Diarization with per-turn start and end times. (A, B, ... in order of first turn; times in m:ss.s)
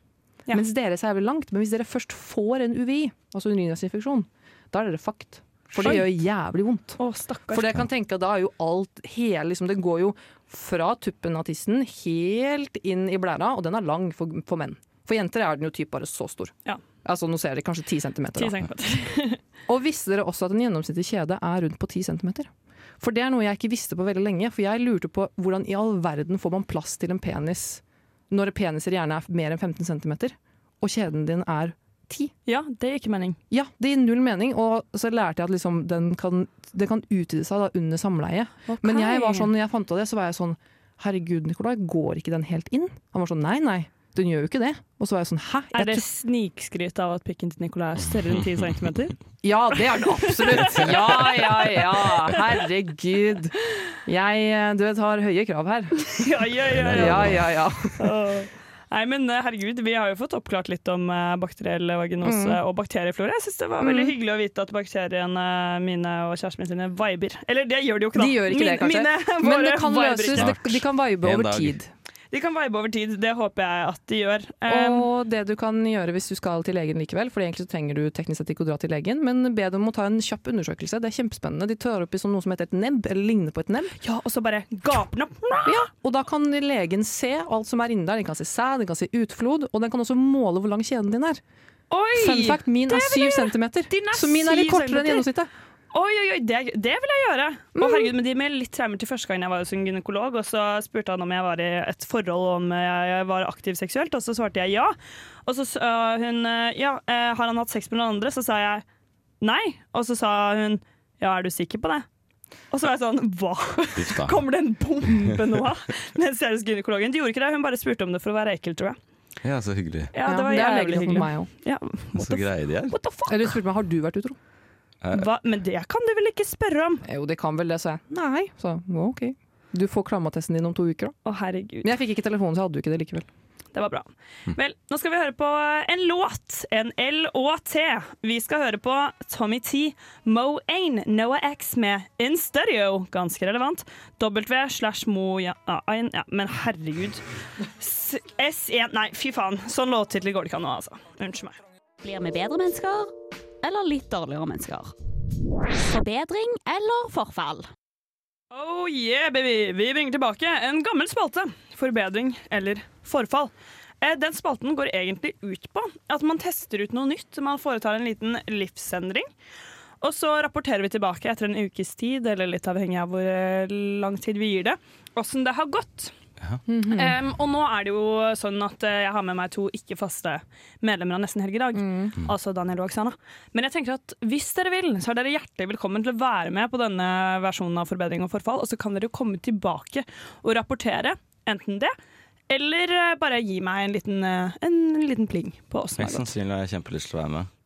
0:00.5-0:07.0 A
0:05.8-0:06.1 B
0:07.0-0:07.8 B
0:07.5-0:16.5 A
0:17.0-0:18.6 A
0:18.3-0:19.4 B
0:19.7-0:22.5 A
0:23.0-0:32.3 A
0:32.5-0:33.4 B
0:33.5-0:46.0 A
0:38.7-0:39.5 B
0:45.7-0:49.1 B
0:49.4-0:56.2 A
0:50.0-0:51.8 B
0:56.0-0:57.4 B
0:56.7-0:57.4 C
0:56.8-0:58.1 A
0:58.0-1:10.5 B
1:02.2-1:02.6 A
1:03.8-1:04.1 A
1:08.2-1:11.9 A
1:10.3-1:11.8 C
1:12.3-1:15.1 B
1:14.7-1:23.9 A
1:24.0-1:25.9 B
1:25.6-1:31.4 A
1:31.9-1:35.2 B
1:32.2-1:35.5 A
1:35.9-1:48.8 B
1:37.8-1:38.1 A
1:49.4-1:52.0 B
1:52.7-1:59.0 B
1:54.0-1:54.4 C
1:59.4-2:00.1 C
2:00.1-2:03.5 B
2:00.2-2:01.5 A
2:02.1-2:02.9 C
2:03.3-2:04.4 A
2:05.0-2:05.3 C
2:05.1-2:07.0 B
2:07.0-2:11.1 A
2:11.2-2:11.9 B
2:11.8-2:13.3 A
2:13.7-2:27.2 B
2:27.8-2:31.6 B
2:32.0-2:34.9 D
2:35.8-2:37.7 D
2:38.5-2:49.3 B
2:50.0-2:56.1 B
2:56.7-2:57.2 A
2:56.9-3:11.9 B
3:01.7-3:02.1 A
3:12.5-3:16.3 B
3:16.0-3:17.5 C